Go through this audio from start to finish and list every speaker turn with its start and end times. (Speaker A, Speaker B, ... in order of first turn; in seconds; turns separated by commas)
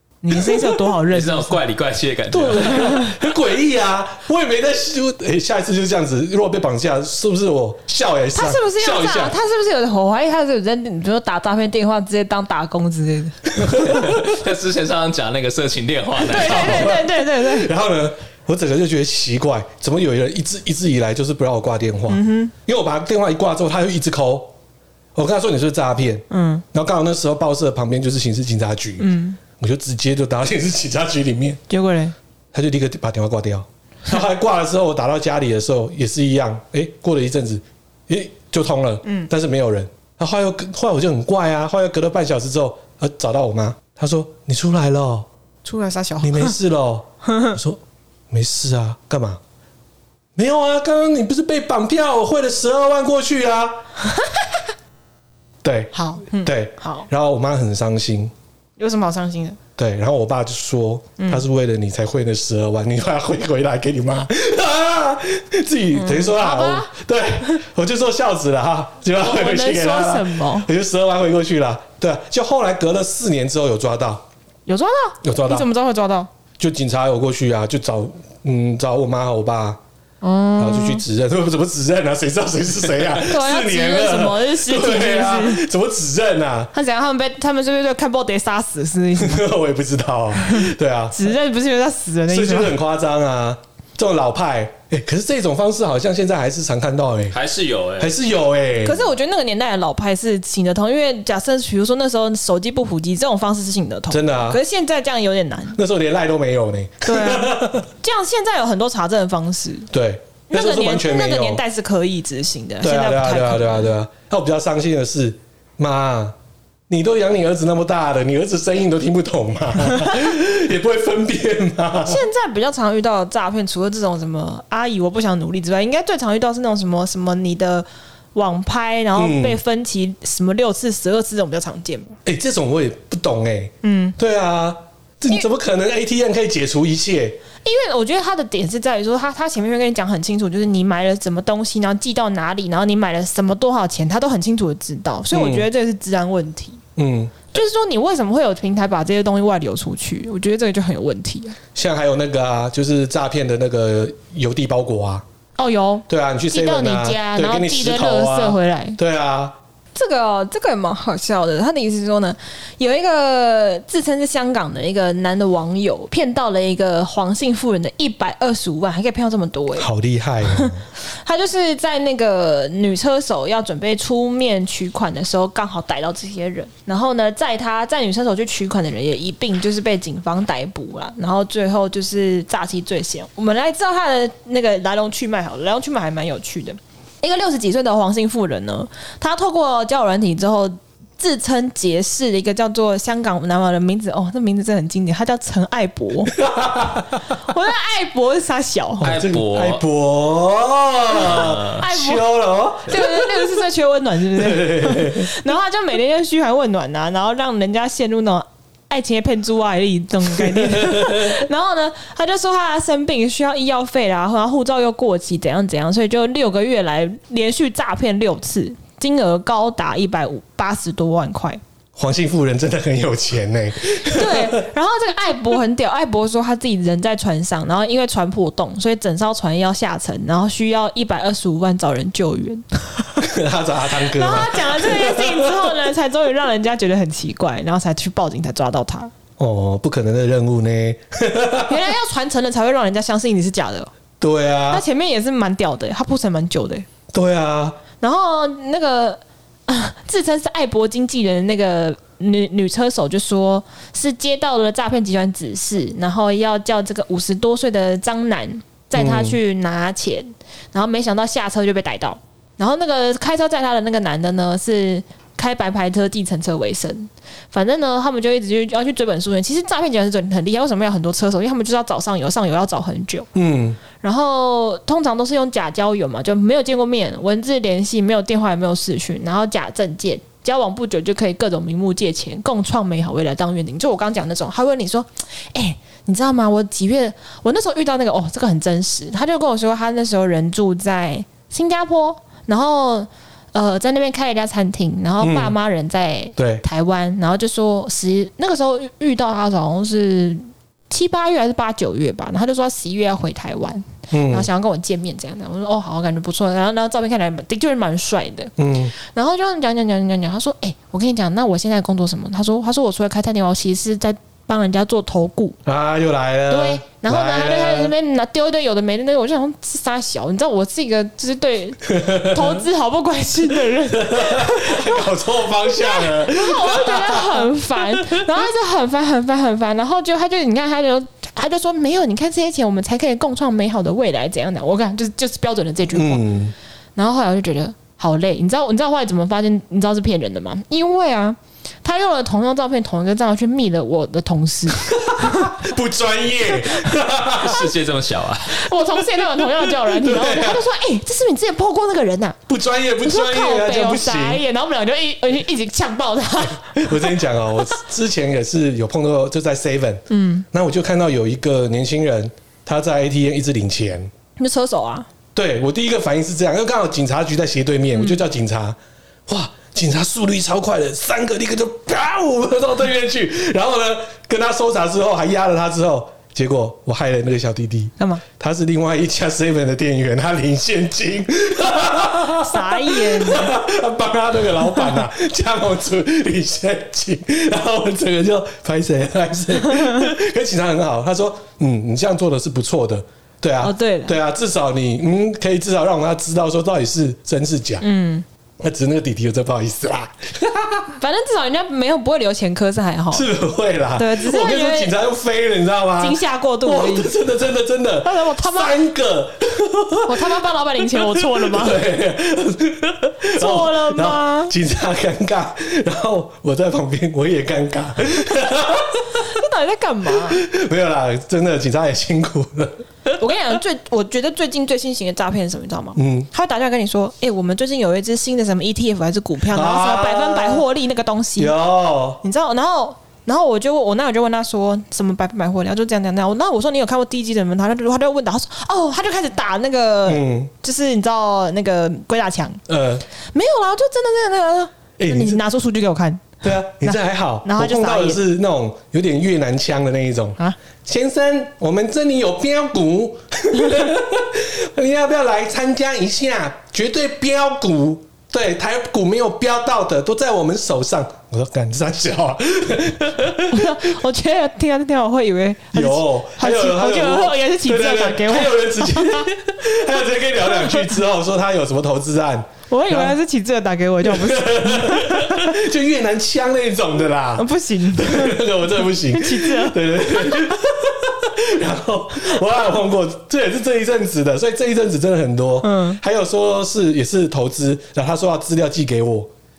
Speaker A: 0.2-1.6, Speaker B: 0.3-0.8, Speaker C: 1.1-3.1, Speaker B: 2.3-9.4, Speaker A: 8.3-13.8, Speaker B: 13.5-14.3, Speaker C: 13.8-17.0, Speaker A: 16.2-17.7, Speaker B: 16.3-24.5, Speaker A: 22.1-22.5, Speaker B: 25.1-29.1, Speaker A: 26.3-26.6, Speaker A: 29.0-29.4, Speaker B: 29.6-31.6, Speaker A: 31.7-32.1, Speaker B: 32.5-45.3, Speaker A: 39.0-39.3, Speaker A: 45.6-46.5, Speaker B: 46.2-49.4, Speaker A: 47.2-47.6, Speaker B: 50.4-53.8, Speaker A: 54.1-54.4, Speaker B: 55.6-58.3, Speaker A: 55.9-57.1, Speaker A: 58.8-59.6, Speaker B: 59.8-74.2, Speaker A: 61.2-61.4, Speaker A: 65.9-66.9, Speaker A: 69.2-70.7, Speaker A: 74.7-76.3, Speaker B: 75.2-75.7, Speaker B: 76.6-79.8, Speaker A: 80.2-81.0, Speaker B: 80.6-86.7, Speaker A: 83.2-85.6, Speaker A: 86.7-89.5, Speaker B: 89.2-91.3, Speaker A: 90.4-92.7, Speaker B: 92.3-97.4, Speaker C: 97.3-98.1, Speaker B: 98.0-99.0, Speaker A: 98.8-105.8, Speaker B: 104.1-104.6, Speaker B: 105.8-107.9, Speaker A: 107.0-109.9, Speaker B: 109.9-111.6, Speaker A: 110.5-113.9, Speaker B: 112.8-116.3, Speaker B: 116.9-122.2, Speaker A: 122.0-132.2, Speaker B: 129.2-129.6, Speaker B: 132.2-137.4, Speaker A: 133.8-134.2, Speaker A: 137.6-146.8, Speaker B: 145.3-145.7, Speaker B: 147.0-147.3, Speaker A: 147.5-151.6, Speaker B: 151.7-155.2, Speaker A: 155.6-159.0, Speaker B: 156.1-159.5, Speaker A: 159.9-169.9, Speaker B: 169.8-170.8, Speaker A: 170.4-196.4, Speaker B: 196.3-197.2, Speaker A: 197.4-199.1, Speaker B: 199.0-203.5, Speaker C: 199.0-199.8, Speaker A: 201.1-202.2, Speaker C: 201.3-201.8, Speaker A: 202.8-221.6, Speaker B: 204.3-205.3, Speaker B: 210.3-211.3, Speaker B: 221.9-224.6, Speaker A: 224.1-233.2, Speaker B: 233.2-235.8, Speaker A: 234.0-239.1, Speaker B: 239.4-241.8, Speaker A: 241.7-243.9, Speaker B: 244.2-244.8, Speaker A: 244.7-246.8, Speaker B: 247.1-247.8, Speaker A: 248.0-273.3, Speaker B: 258.9-259.4, Speaker B: 273.3-273.8, Speaker A: 274.0-315.6, Speaker B: 295.2-295.5, Speaker B: 296.4-296.6, Speaker B: 304.1-304.5, Speaker B: 308.6-308.9, Speaker B: 315.6-317.9, Speaker A: 316.5-336.2, Speaker B: 321.9-322.6, Speaker B: 323.9-327.5, Speaker B: 335.9-336.5, Speaker A: 336.9-345.6, Speaker B: 344.7-347.7, Speaker C: 347.4-348.7, Speaker A: 348.4-352.4, Speaker B: 349.4-350.6, Speaker B: 352.5-354.4, Speaker A: 353.0-357.2, Speaker B: 356.4-364.1, Speaker A: 360.1-360.4, Speaker A: 364.4-365.1, Speaker B: 365.3-397.8, Speaker A: 367.9-368.2, Speaker A: 382.4-383.6, Speaker A: 393.6-394.2, Speaker A: 397.8-398.2, Speaker B: 398.6-400.9, Speaker A: 400.9-403.3, Speaker B: 403.1-410.4, Speaker A: 404.0-404.9, Speaker A: 406.0-407.1, Speaker A: 408.0-408.8, Speaker A: 410.1-411.8, Speaker B: 410.9-419.3, Speaker A: 413.3-414.5, Speaker A: 419.1-420.4, Speaker B: 420.3-422.8, Speaker A: 423.2-431.5, Speaker B: 426.0-426.3, Speaker B: 429.5-430.6, Speaker B: 431.4-432.2, Speaker A: 432.2-442.6, Speaker B: 440.1-440.5, Speaker B: 442.7-443.0, Speaker A: 443.3-448.2, Speaker B: 445.0-445.4, Speaker B: 446.4-463.8, Speaker A: 463.5-469.3, Speaker B: 465.7-473.1, Speaker A: 470.4-470.9, Speaker A: 472.7-475.5, Speaker B: 474.0-489.3, Speaker A: 477.4-480.6, Speaker A: 485.6-486.0